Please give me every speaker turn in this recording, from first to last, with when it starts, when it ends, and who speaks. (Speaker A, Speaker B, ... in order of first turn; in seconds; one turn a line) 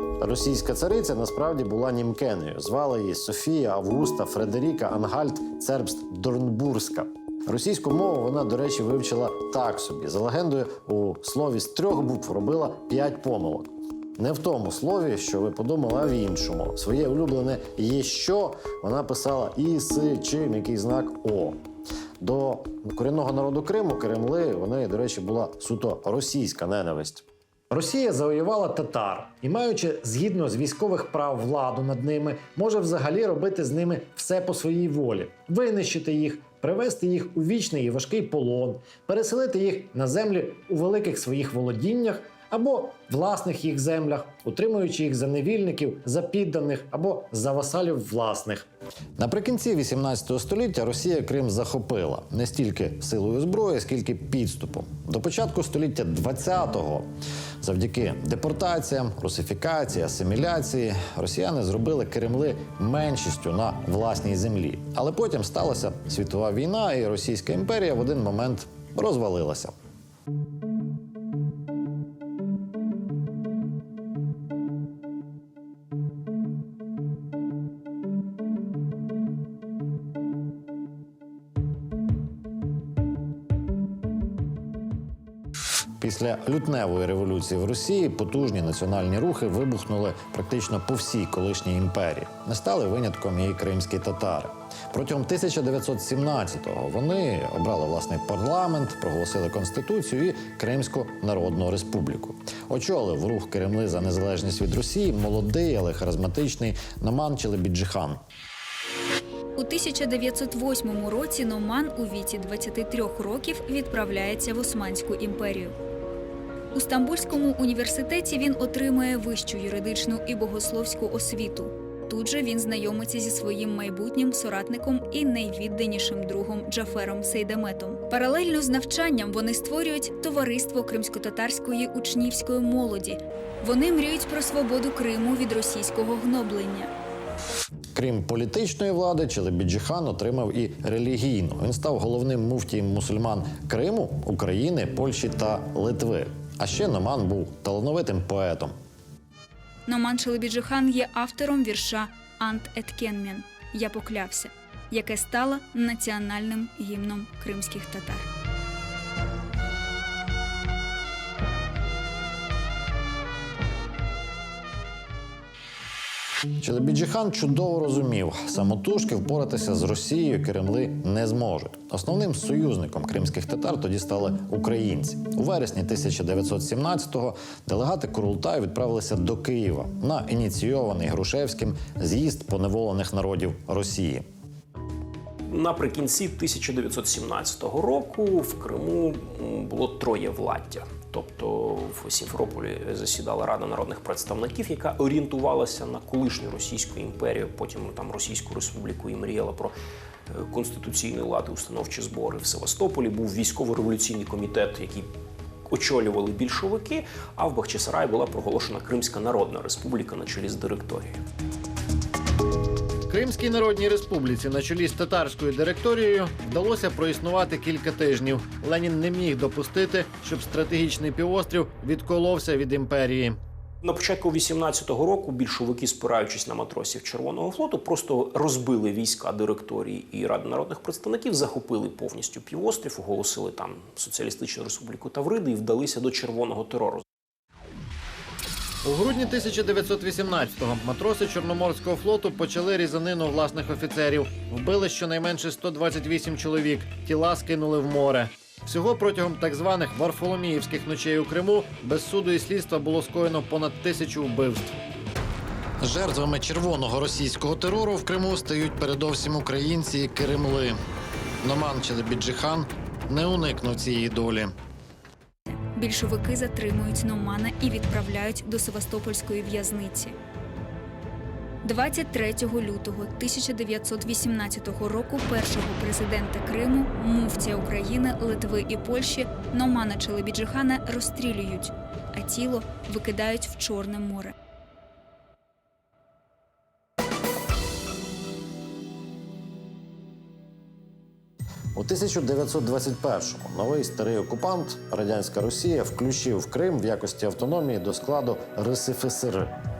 Speaker A: 0.2-21.6
Speaker A: 22.2-48.6
Speaker A: 49.2-57.1
Speaker A: 57.6-69.7
Speaker A: 86.0-108.2
Speaker B: 109.6-115.7
Speaker B: 116.7-136.9
Speaker A: 137.9-148.7
Speaker B: 149.9-158.2
Speaker A: 166.6-184.2
Speaker C: 185.5-199.7
Speaker C: 200.3-205.1
Speaker C: 205.7-211.2
Speaker D: 213.1-223.4
Speaker C: 223.8-237.0
Speaker D: 238.8-254.7
Speaker A: 255.8-260.7
Speaker D: 259.6-260.2
Speaker A: 261.4-264.5
Speaker B: 265.5-270.1
Speaker B: 271.6-284.3
Speaker A: 291.7-299.6